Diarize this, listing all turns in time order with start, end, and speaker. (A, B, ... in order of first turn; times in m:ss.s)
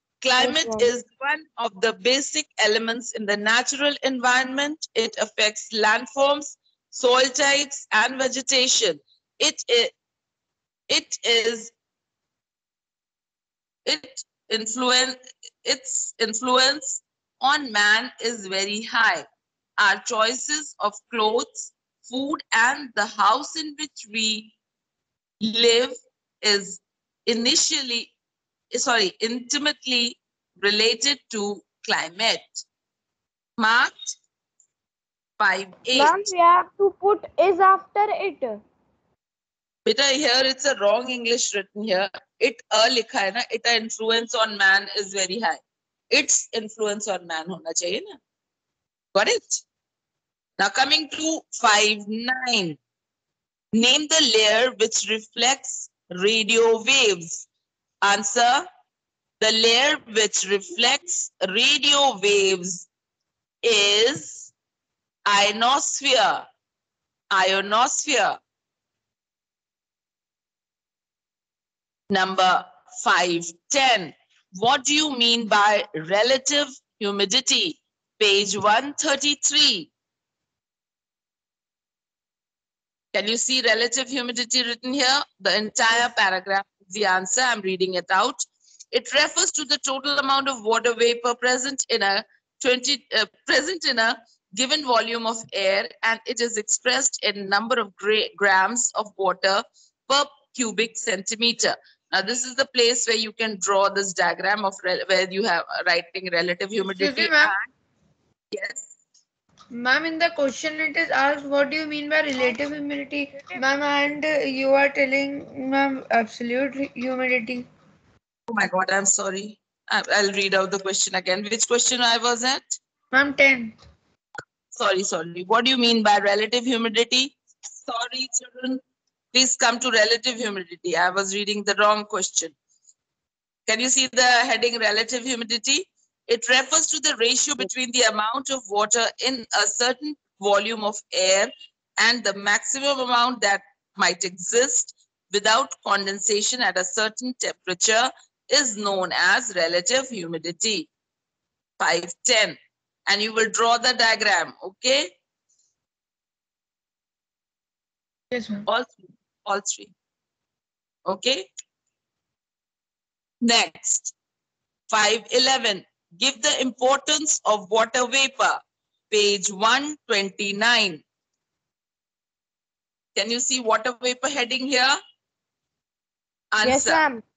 0:00.2-0:09.9 A
0:00.4-0:00.9 B
0:10.9-0:11.7 A
0:13.8-0:19.2 A
0:19.8-0:24.5 A
0:25.4-0:28.1 A
0:28.7-0:32.6 A
0:33.6-0:34.2 A
0:35.4-0:36.3 A
0:35.9-0:38.6 B
0:39.8-0:48.2 A
0:49.1-0:49.6 A
0:50.6-0:52.8 A
0:53.7-0:57.5 A
0:58.0-0:58.6 A
0:59.4-1:02.9 A
1:03.6-1:04.5 A
1:05.2-1:06.4 A
1:07.3-1:08.4 A
1:12.1-1:19.9 A
1:23.1-1:47.6 A
1:47.0-1:47.5 C
1:48.5-1:48.9 A
1:49.7-1:57.6 C
1:58.5-2:02.8 A
2:03.1-2:03.7 C
2:04.7-2:08.8 A
2:09.3-2:12.5 A
2:13.7-2:30.9 A
2:31.8-2:32.6 A
2:33.1-2:35.1 A
2:38.3-2:38.6 C
2:38.7-2:39.9 A
2:41.0-2:41.4 A
2:43.4-2:44.1 A
2:44.9-2:48.6 A
2:49.1-2:51.0 A
2:53.1-2:55.0 A
2:56.5-2:57.0 A
2:56.6-2:57.2 B